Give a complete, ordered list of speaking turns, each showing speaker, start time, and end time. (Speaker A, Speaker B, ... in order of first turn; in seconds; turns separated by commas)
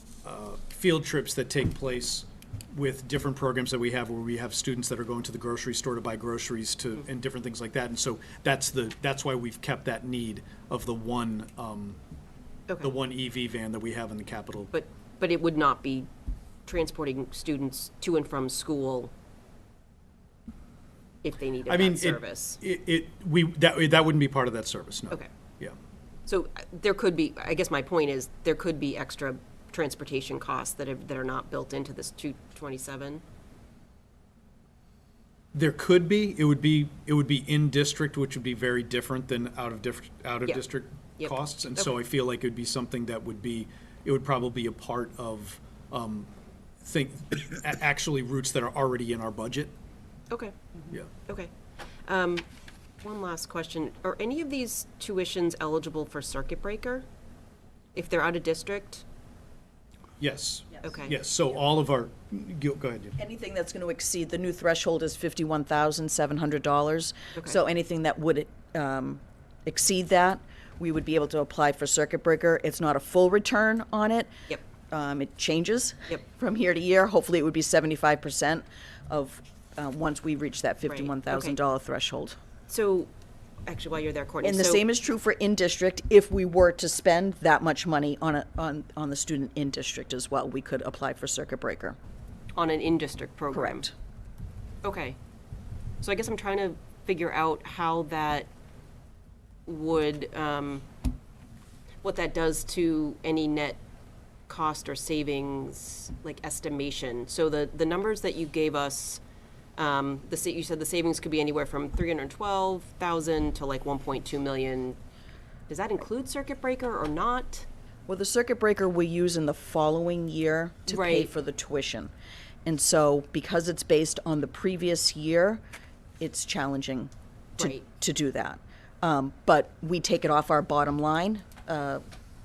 Speaker A: 0.2-12.0, Speaker A: 12.8-14.7, Speaker B: 14.7-16.1, Speaker B: 16.6-19.1, Speaker B: 21.2-22.6, Speaker A: 21.7-25.8, Speaker B: 26.3-33.2, Speaker A: 35.5-46.3, Speaker B: 41.2-41.9, Speaker A: 46.8-49.7, Speaker B: 50.3-50.5, Speaker B: 51.2-51.5, Speaker B: 52.0-52.5, Speaker B: 53.0-57.0, Speaker B: 57.9-59.0, Speaker A: 60.2-63.2, Speaker B: 60.8-61.2, Speaker C: 63.2-74.3, Speaker C: 74.9-82.4, Speaker B: 80.9-81.5, Speaker B: 82.7-83.1, Speaker B: 83.7-84.8, Speaker C: 84.4-92.0, Speaker B: 92.5-93.8, Speaker C: 93.5-93.9, Speaker B: 94.8-95.2, Speaker B: 96.0-98.5, Speaker B: 99.7-100.8, Speaker B: 102.0-103.8, Speaker B: 104.5-109.2, Speaker B: 109.8-115.0, Speaker B: 115.7-117.7, Speaker C: 118.1-122.1, Speaker B: 120.9-121.3, Speaker C: 122.6-125.6, Speaker C: 126.2-132.0, Speaker B: 127.6-127.8